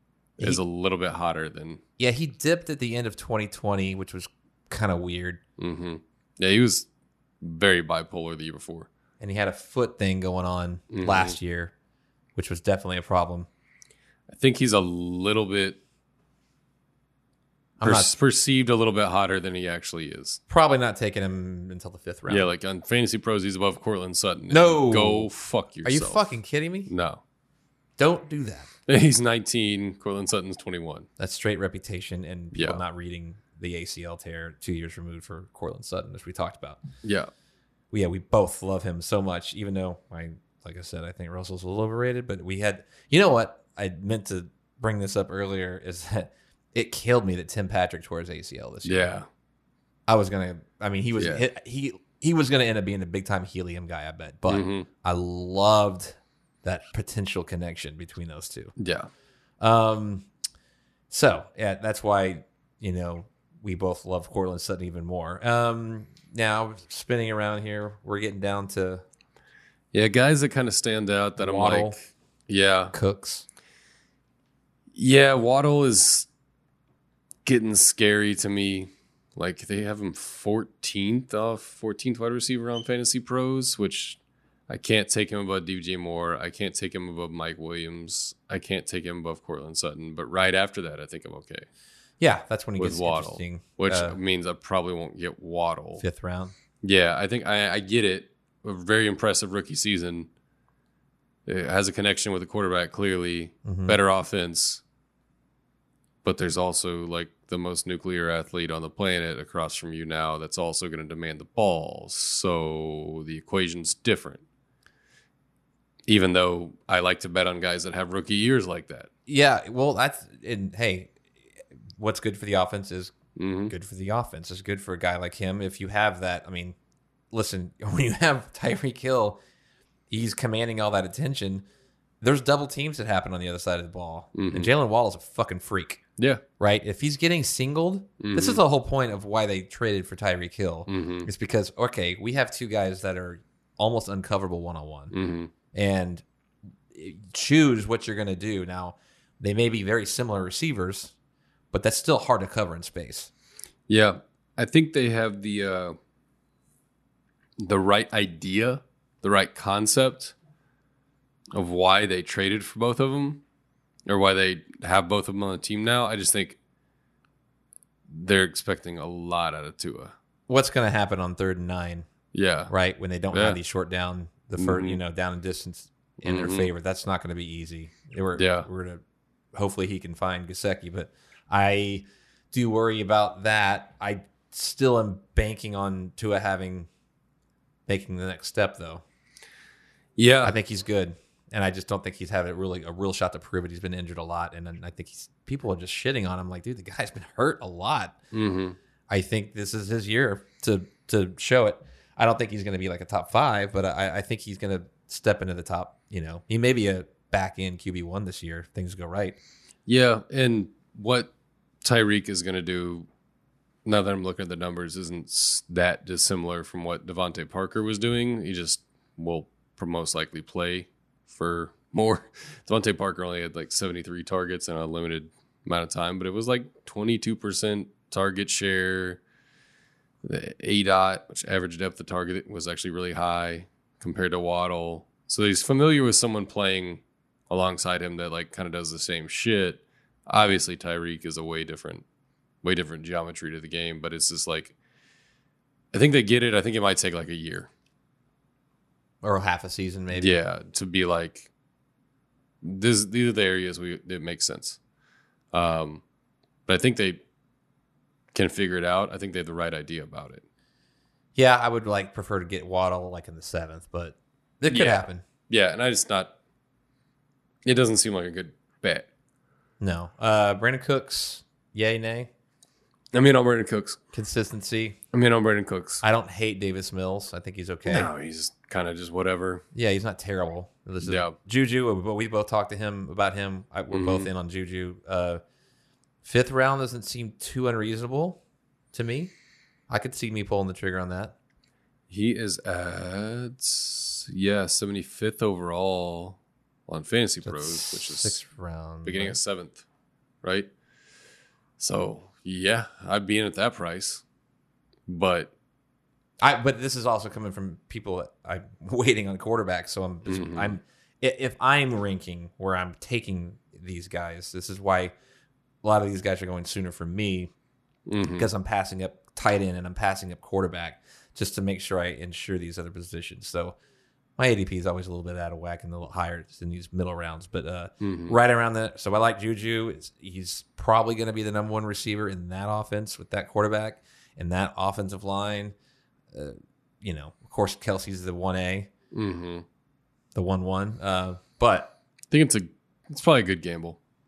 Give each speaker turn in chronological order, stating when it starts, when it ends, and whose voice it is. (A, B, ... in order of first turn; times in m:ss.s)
0:00.4-0:01.8 A
0:02.0-0:05.4 B
0:05.6-0:06.9 A
0:07.4-0:08.9 A
0:09.2-0:11.7 B
0:10.9-0:11.4 A
0:12.4-0:13.5 B
0:14.3-0:15.8 A
0:17.8-0:18.1 B
0:17.8-0:20.4 A
0:20.5-0:22.5 B
0:22.3-0:26.2 A
0:24.5-0:25.3 B
0:25.8-0:26.9 B
0:26.9-0:27.2 A
0:28.0-0:28.7 B
0:28.9-0:31.1 A
0:31.2-0:36.8 B
0:32.5-0:32.8 A
0:37.0-0:37.3 A
0:37.9-0:49.2 B
0:48.8-0:49.3 A
0:50.1-0:58.7 B
0:51.2-0:51.4 A
0:54.5-0:54.9 A
0:58.8-0:59.1 A
0:59.6-1:00.3 B
1:01.1-1:09.0 B
1:09.9-1:12.9 A
1:11.4-1:12.0 B
1:12.9-1:13.4 B
1:14.9-1:16.3 A
1:17.4-1:31.7 A
1:32.2-1:34.2 B
1:32.8-1:36.0 A
1:36.0-1:36.5 B
1:36.8-1:40.3 A
1:41.4-1:44.8 A
1:43.6-1:44.0 B
1:46.2-1:54.4 A
1:56.0-1:59.1 A
1:59.3-2:01.1 B
2:02.0-2:03.1 B
2:03.4-2:03.7 A
2:03.7-2:06.8 B
2:07.3-2:09.4 B
2:10.1-2:11.6 B
2:12.2-2:16.0 B
2:14.3-2:14.7 A
2:16.6-2:25.1 B
2:18.2-2:18.6 A
2:20.9-2:21.3 A
2:25.1-2:25.5 A
2:25.7-2:26.2 B
2:26.9-2:31.1 B
2:31.7-2:33.3 B
2:33.9-2:36.0 A
2:37.6-2:40.3 A
2:41.5-2:43.4 A
2:44.1-2:46.6 A
2:48.1-2:50.1 A
2:50.5-2:52.1 B
2:52.3-2:52.7 A
2:52.7-2:59.0 B
2:53.3-2:53.6 A
2:54.6-2:55.0 A
2:56.2-2:56.7 A
2:58.4-2:58.7 A
2:59.5-3:06.9 B
3:07.9-3:09.0 B
3:10.2-3:10.6 A
3:10.4-3:18.2 B
3:18.3-3:18.8 A
3:19.1-3:29.4 B
3:29.8-3:33.1 A
3:33.8-3:49.2 A
3:50.2-4:02.0 A
4:02.6-4:04.7 A
4:05.9-4:07.7 A
4:09.2-4:10.4 B
4:10.1-4:11.5 A
4:12.6-4:14.8 A
4:15.5-4:16.0 A
4:16.7-4:17.2 A
4:18.3-4:20.4 A
4:21.4-4:25.2 B
4:24.7-4:26.3 A
4:27.6-4:29.1 A
4:29.8-4:32.3 B
4:33.1-4:34.0 A
4:34.1-4:35.0 B
4:35.1-4:36.0 A
4:36.0-4:38.1 B
4:37.8-4:39.6 A
4:39.7-4:45.4 B
4:41.0-4:41.4 A
4:43.9-4:44.3 A
4:46.2-4:48.4 B
4:48.9-4:49.3 B
4:49.9-4:51.3 B
4:52.1-4:58.4 A
4:57.4-4:59.4 B
4:59.0-4:59.8 A
5:00.4-5:00.7 A
5:01.8-5:04.2 A
5:05.1-5:05.5 A
5:06.4-5:15.1 B
5:10.2-5:10.8 A
5:15.8-5:17.5 B
5:18.1-5:18.5 A
5:18.2-5:23.8 B
5:24.4-5:35.7 B
5:28.0-5:28.4 A
5:36.3-5:38.9 B
5:39.1-5:39.6 A
5:40.3-5:41.9 B
5:42.3-5:44.0 A